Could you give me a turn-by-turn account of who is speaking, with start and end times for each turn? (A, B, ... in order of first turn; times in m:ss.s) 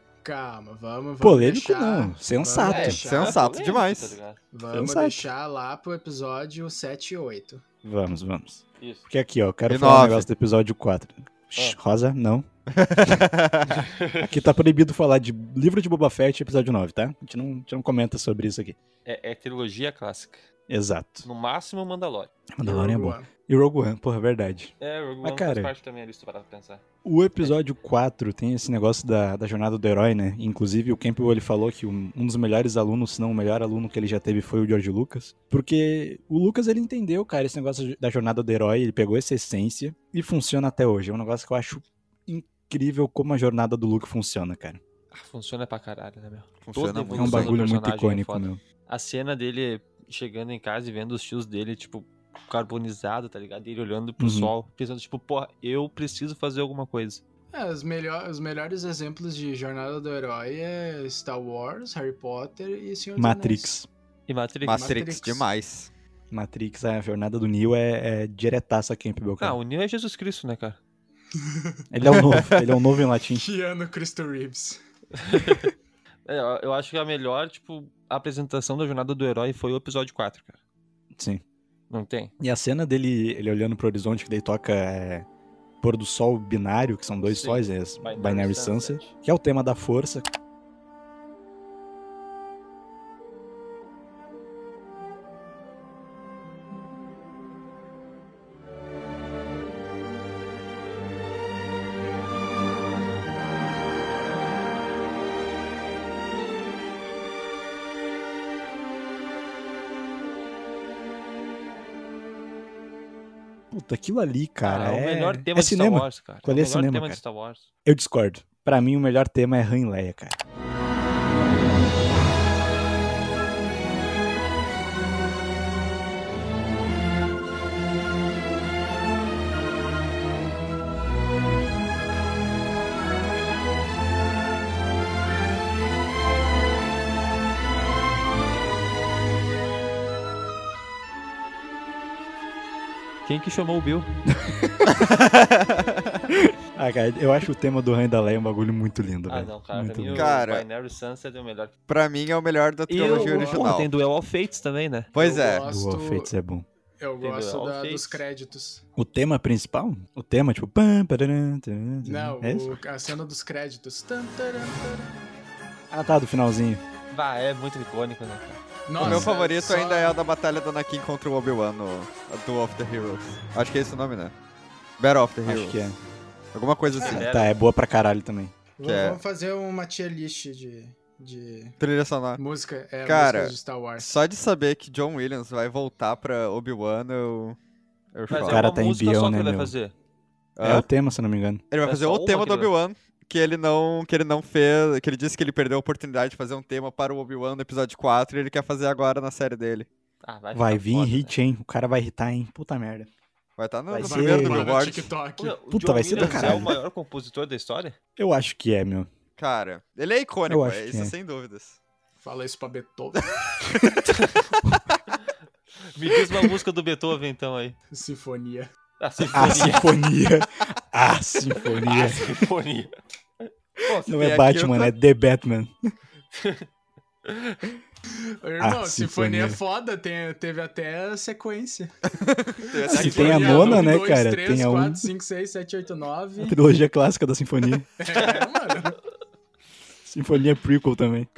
0:00.2-0:03.4 A
0:01.2-0:03.0 B
0:02.6-0:04.4 C
0:03.0-0:04.2 D
0:04.5-0:07.6 A
0:04.7-0:05.2 B
0:07.8-0:12.5 B
0:08.8-0:09.1 C
0:09.7-0:10.3 D
0:12.7-0:13.8 D
0:13.9-0:14.4 C
0:14.2-0:18.8 B
0:19.0-0:20.4 C
0:20.7-0:21.3 B
0:21.2-0:22.3 C
0:22.5-0:25.7 B
0:22.6-0:23.3 A
0:24.8-0:26.8 C
0:27.0-0:44.8 B
0:45.1-0:57.2 C
0:46.6-0:47.6 D
0:47.1-0:48.6 B
0:54.2-0:54.5 B
0:57.5-1:03.7 A
1:03.2-1:03.9 B
1:04.3-1:05.0 C
1:04.6-1:05.9 D
1:04.7-1:05.5 A
1:06.3-1:09.6 B
1:09.4-1:10.8 C
1:11.4-1:11.8 A
1:11.9-1:13.4 B
1:12.0-1:12.5 D
1:13.4-1:14.8 A
1:15.2-1:15.7 C
1:16.2-1:20.6 C
1:21.1-1:21.4 B
1:21.9-1:22.3 C
1:22.4-1:25.2 B
1:25.8-1:30.3 B
1:27.2-1:29.1 C
1:53.7-1:57.2 B
1:54.6-1:57.7 C
1:57.8-2:00.4 B
2:23.2-2:24.1 C
2:24.3-2:24.8 B
2:24.9-2:26.2 D
2:26.3-2:30.3 B
2:29.3-2:31.7 C
2:30.1-2:30.6 D
2:31.9-2:33.9 D
2:32.9-2:35.1 C
2:33.0-2:33.7 A
2:35.1-2:35.6 D
2:35.1-2:36.3 A
2:35.6-2:36.6 B
2:37.0-2:38.8 A
2:37.2-2:38.2 C
2:39.0-2:42.8 B
2:42.0-2:45.2 A
2:45.9-2:46.8 B
2:47.1-2:48.6 C
2:48.9-2:50.2 A
2:49.0-2:49.3 B
2:49.0-2:54.3 D
2:55.0-2:55.9 D
2:55.4-2:56.0 B
2:56.5-2:57.3 D
2:57.0-2:57.6 C
2:57.0-2:58.5 B
2:58.8-3:01.8 A
2:58.8-2:59.2 D
3:01.8-3:02.4 D
3:02.4-3:04.2 A
3:03.0-3:07.6 D
3:08.1-3:08.6 D
3:08.3-3:09.9 C
3:08.3-3:09.7 B
3:10.6-3:10.9 D
3:10.6-3:11.6 B
3:11.7-3:19.9 D
3:11.8-3:12.7 C
3:20.2-3:21.4 C
3:20.5-3:23.1 B
3:23.6-3:25.1 D
3:23.9-3:24.8 B
3:24.0-3:25.6 A
3:25.4-3:28.0 C
3:25.7-3:26.8 B
3:28.2-3:29.1 B
3:29.4-3:31.8 D
3:30.5-3:31.1 B
3:32.2-3:33.3 A
3:34.1-3:34.4 C
3:35.9-3:37.8 C
3:37.9-3:38.7 A
3:39.0-3:40.0 C
3:39.3-3:42.4 B
3:41.8-3:42.9 C
3:43.9-3:44.9 D
3:44.0-3:45.7 B
3:46.3-3:46.6 C
3:47.2-3:47.8 C
3:48.4-3:51.9 A
3:48.6-3:49.6 B
3:52.2-3:53.8 D
3:52.9-3:56.6 A
3:52.9-3:55.1 B
3:52.9-3:53.9 C
3:56.4-3:57.9 B
3:58.0-3:59.0 A
4:00.0-4:01.3 B